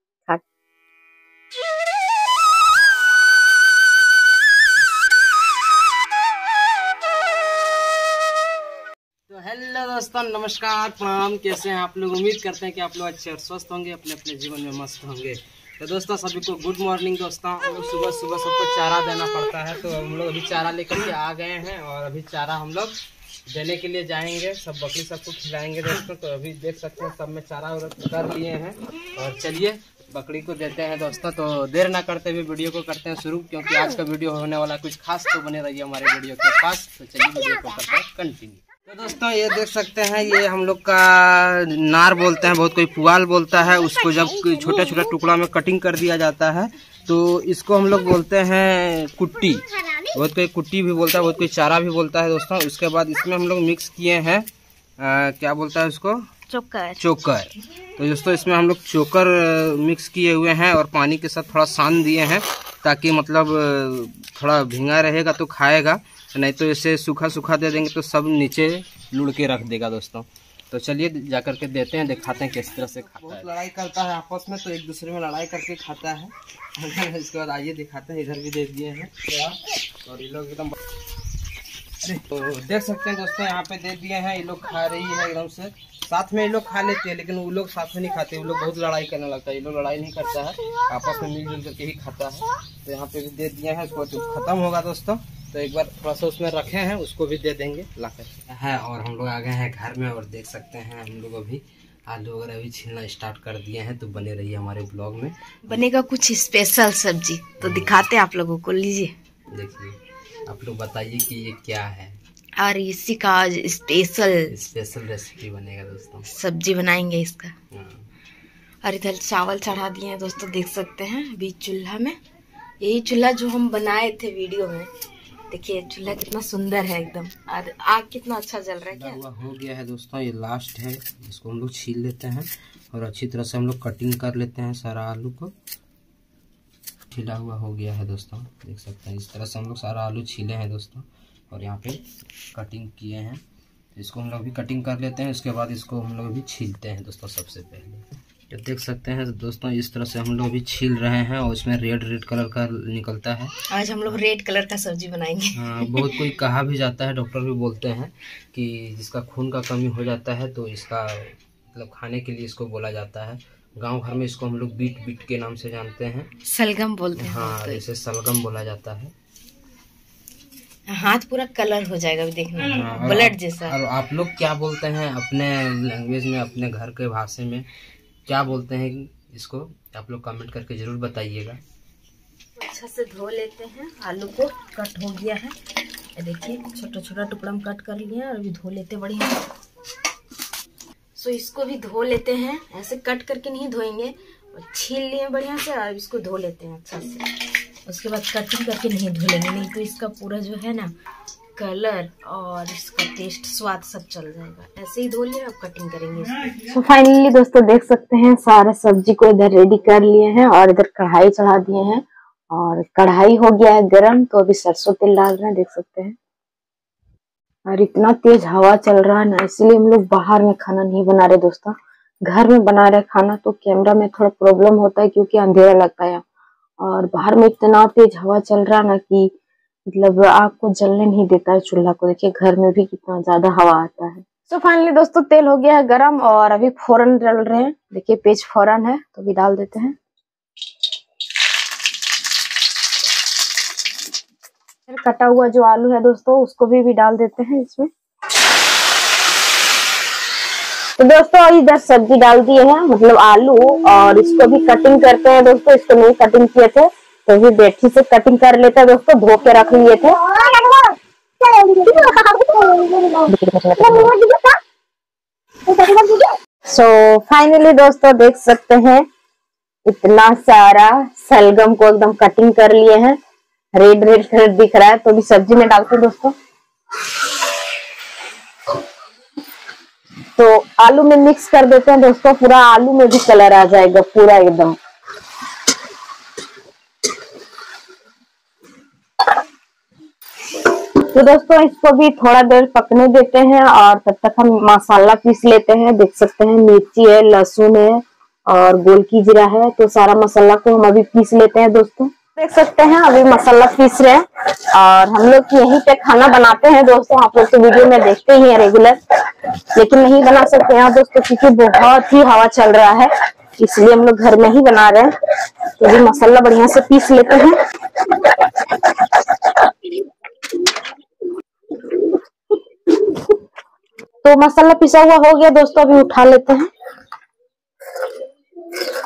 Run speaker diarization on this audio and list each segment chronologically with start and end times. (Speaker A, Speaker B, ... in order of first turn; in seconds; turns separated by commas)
Speaker A: 9.3-22.9, Speaker A: 23.5-54.5, Speaker A: 55.0-56.3, Speaker B: 56.5-57.0, Speaker A: 57.0-80.8, Speaker A: 82.0-105.8, Speaker B: 105.7-109.1, Speaker A: 107.6-108.0, Speaker A: 109.5-112.2, Speaker B: 112.6-114.5, Speaker A: 114.5-116.3, Speaker B: 116.3-117.5, Speaker A: 117.7-118.1, Speaker B: 118.8-122.2, Speaker B: 122.8-124.9, Speaker B: 125.5-129.2, Speaker A: 128.9-135.5, Speaker A: 137.1-142.0, Speaker A: 142.5-143.4, Speaker A: 143.9-153.5, Speaker B: 153.7-156.3, Speaker A: 155.5-166.3, Speaker B: 166.4-167.8, Speaker A: 167.2-169.1, Speaker B: 170.9-173.8, Speaker A: 172.6-177.7, Speaker A: 178.3-181.6, Speaker B: 182.6-185.6, Speaker B: 186.2-189.4, Speaker B: 191.2-200.9, Speaker B: 201.6-216.2, Speaker B: 217.7-221.7, Speaker B: 222.3-226.2, Speaker B: 226.8-229.3, Speaker B: 229.9-239.9, Speaker B: 244.9-247.9, Speaker B: 251.0-260.9, Speaker B: 261.4-264.5, Speaker B: 265.7-269.0, Speaker B: 269.9-273.2, Speaker B: 273.7-276.3, Speaker B: 280.4-284.8, Speaker B: 291.1-309.0, Speaker B: 309.8-315.1, Speaker B: 315.8-317.6, Speaker B: 318.1-318.7, Speaker B: 324.2-326.7